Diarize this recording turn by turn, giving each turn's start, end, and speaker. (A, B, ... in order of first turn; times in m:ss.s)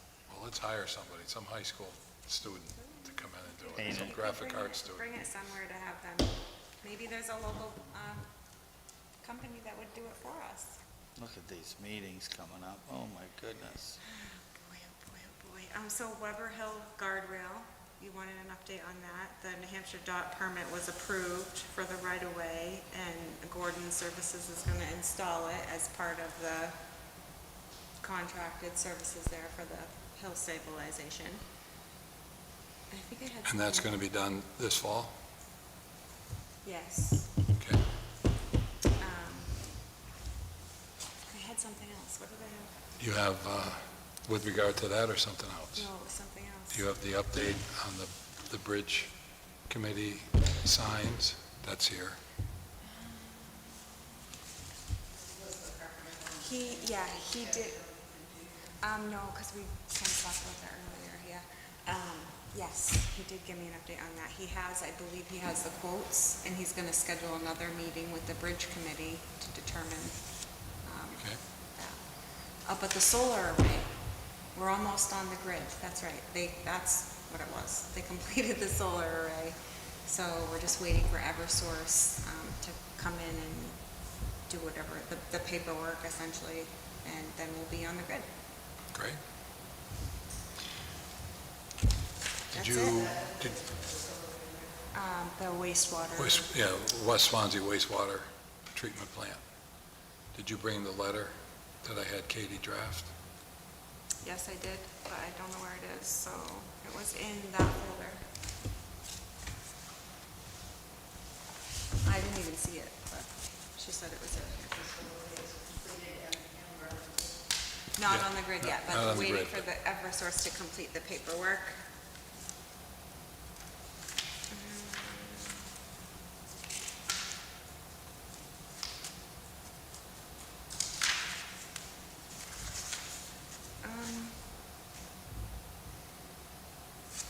0:00.3-0:05.1 A
0:02.9-0:08.3 B
0:03.8-0:04.2 C
0:09.2-0:10.8 B
0:11.2-0:14.0 C
0:14.1-0:26.7 B
0:28.0-0:31.4 B
0:32.9-0:33.9 B
0:33.5-0:35.1 A
0:36.6-0:37.3 B
0:37.5-0:37.8 A
0:39.0-0:39.6 B
0:41.3-0:42.8 B
0:43.0-0:45.9 A
0:45.8-0:46.8 B
0:46.7-0:49.1 A
0:49.7-0:52.2 A
0:56.3-0:57.9 B
0:58.8-1:10.2 B
1:10.8-1:12.0 B
1:12.6-1:13.9 B
1:14.5-1:23.8 B
1:24.5-1:28.3 B
1:28.9-1:29.2 A
1:32.5-1:33.7 A
1:32.5-1:33.2 B
1:34.9-1:36.5 B
1:36.2-1:39.4 A
1:40.3-1:43.1 A
1:44.2-1:48.2 B
1:52.0-1:54.9 B
1:58.0-2:01.8 B
1:58.1-1:59.6 A
2:04.5-2:05.6 B
2:13.8-2:14.4 B